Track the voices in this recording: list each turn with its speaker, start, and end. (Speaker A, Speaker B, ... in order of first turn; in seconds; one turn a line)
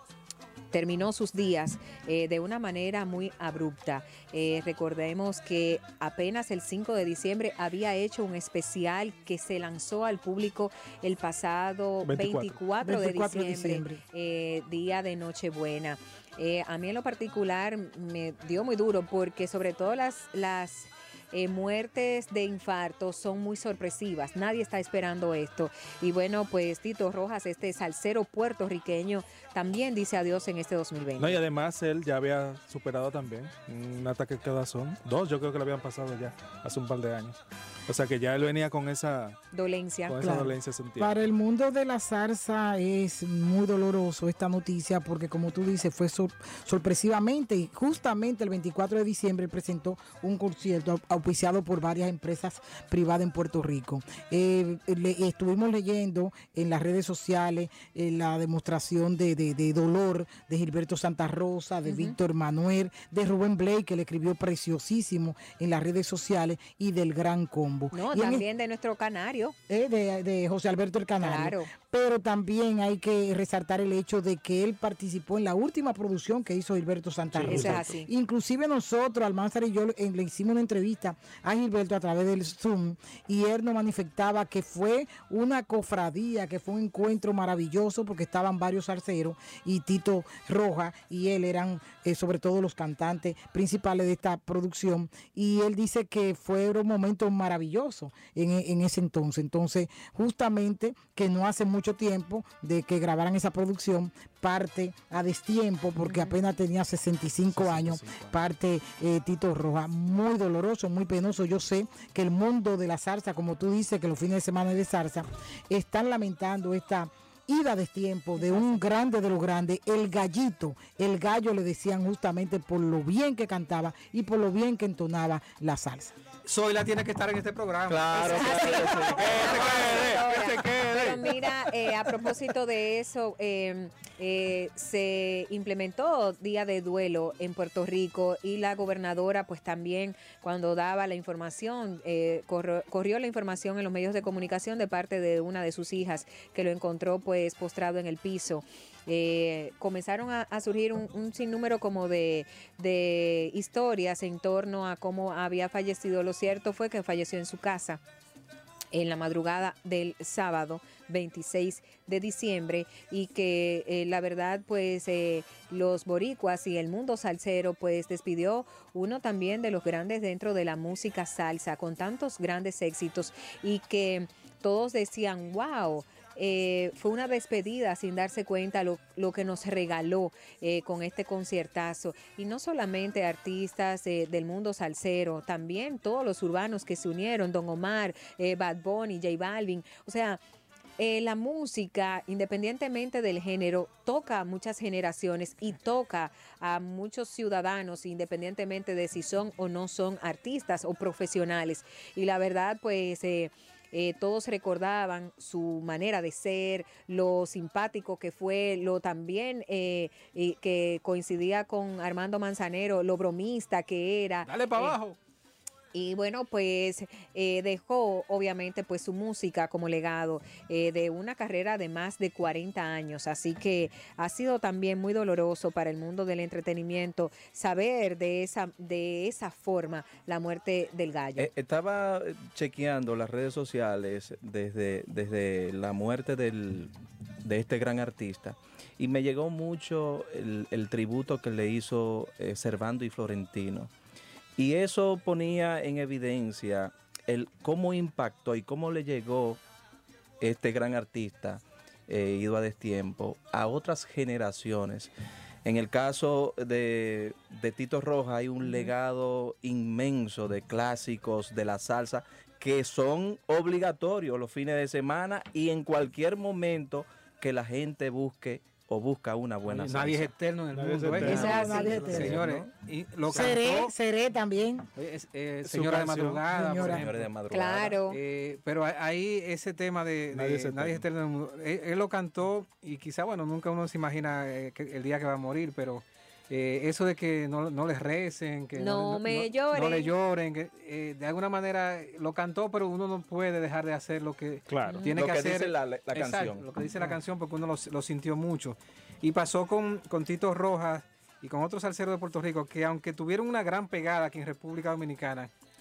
Speaker A: 0.7-31.4
Speaker B: 12.0-12.6
Speaker C: 12.8-14.0
Speaker B: 31.2-39.4
Speaker A: 39.5-40.1
Speaker B: 40.0-41.2
Speaker C: 40.2-68.4
Speaker A: 61.9-62.1
Speaker A: 67.9-69.5
Speaker C: 69.7-126.1
Speaker A: 71.2-71.7
Speaker A: 77.4-78.1
Speaker B: 77.5-77.8
Speaker A: 106.0-106.3
Speaker B: 107.5-108.3
Speaker A: 118.4-118.7
Speaker D: 126.5-130.1
Speaker E: 127.9-130.0
Speaker A: 128.3-158.0
Speaker B: 129.1-131.7
Speaker A: 158.9-190.4
Speaker A: 191.0-215.0
Speaker D: 214.4-215.2
Speaker A: 215.9-231.5
Speaker E: 231.4-236.9
Speaker E: 237.4-243.9
Speaker E: 244.6-249.6
Speaker E: 250.4-255.1
Speaker E: 255.6-270.3
Speaker A: 258.6-258.9
Speaker D: 269.6-273.9
Speaker B: 270.7-272.6
Speaker E: 271.2-272.6
Speaker A: 271.3-272.1
Speaker C: 271.4-272.4
Speaker C: 273.3-274.9
Speaker D: 274.9-277.3
Speaker B: 275.6-276.6
Speaker C: 276.5-277.0
Speaker E: 276.8-278.0
Speaker A: 277.5-278.2
Speaker D: 278.1-305.5
Speaker B: 280.3-281.0
Speaker A: 288.8-290.1
Speaker B: 294.7-295.0
Speaker E: 295.1-296.7